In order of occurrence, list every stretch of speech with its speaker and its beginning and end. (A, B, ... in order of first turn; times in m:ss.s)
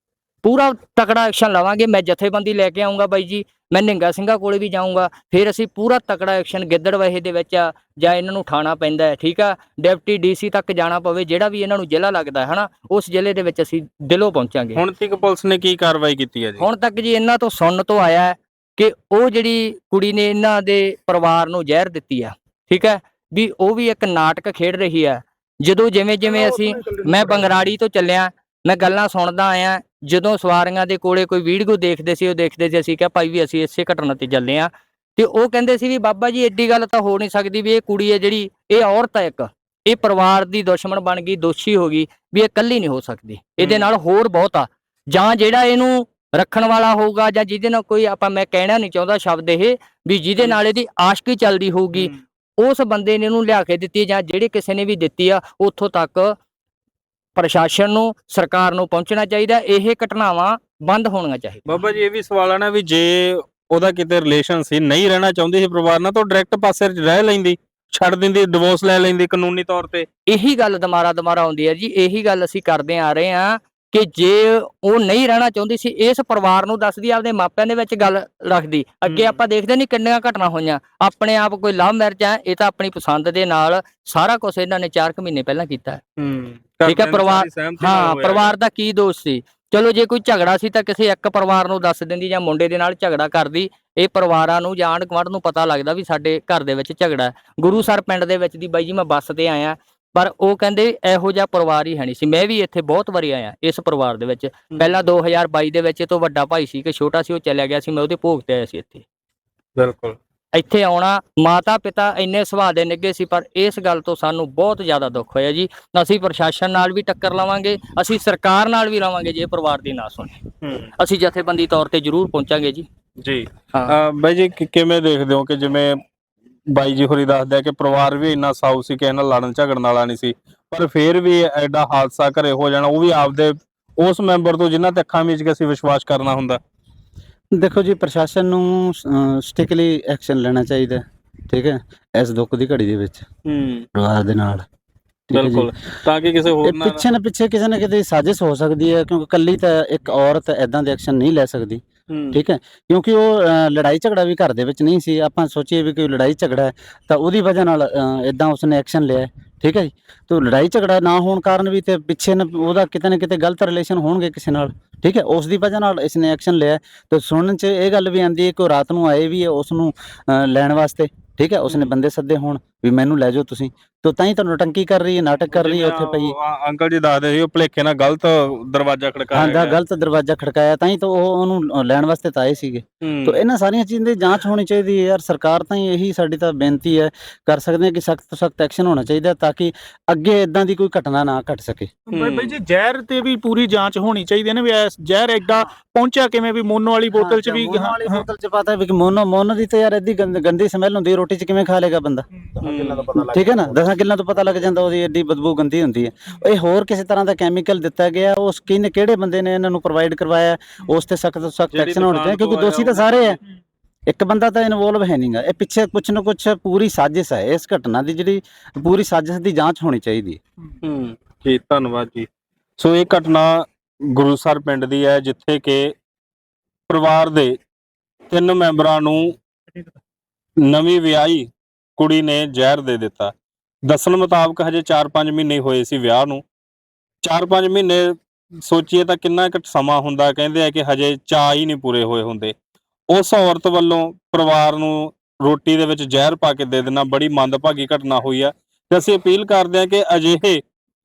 0:00.4-0:14.8 A
0:14.8-0:16.7 B
0:16.6-0:56.3 A
0:26.3-0:27.6 C
0:43.6-0:43.9 B
0:51.9-0:52.2 B
0:57.4-1:01.6 A
1:01.7-1:10.1 B
1:10.3-1:26.0 A
1:19.1-1:19.4 B
1:26.2-1:28.5 B
1:26.9-1:49.0 A
1:49.8-1:50.2 B
1:50.6-2:00.4 A
2:00.6-2:00.9 B
2:01.0-2:02.9 A
2:03.2-2:06.0 B
2:06.7-2:16.6 B
2:17.6-2:23.2 D
2:23.5-2:23.9 B
2:24.0-2:24.6 D
2:25.3-2:25.7 D
2:25.3-2:27.0 B
2:26.6-2:31.8 D
2:32.1-2:32.4 B
2:32.3-2:56.3 D
2:51.7-2:51.9 B
2:55.5-2:59.8 B
2:59.3-3:11.9 D
3:03.0-3:03.5 B
3:12.1-3:18.2 C
3:12.1-3:12.6 B
3:17.2-3:22.3 D
3:22.6-3:23.2 B
3:23.2-3:33.4 D
3:31.7-3:33.4 B
3:34.1-3:40.4 D
3:40.8-3:45.9 B
3:46.9-3:47.6 B
3:48.3-3:49.4 B
3:50.7-3:53.3 B
3:53.9-3:56.4 B
3:57.2-4:02.5 B
4:03.1-4:10.6 B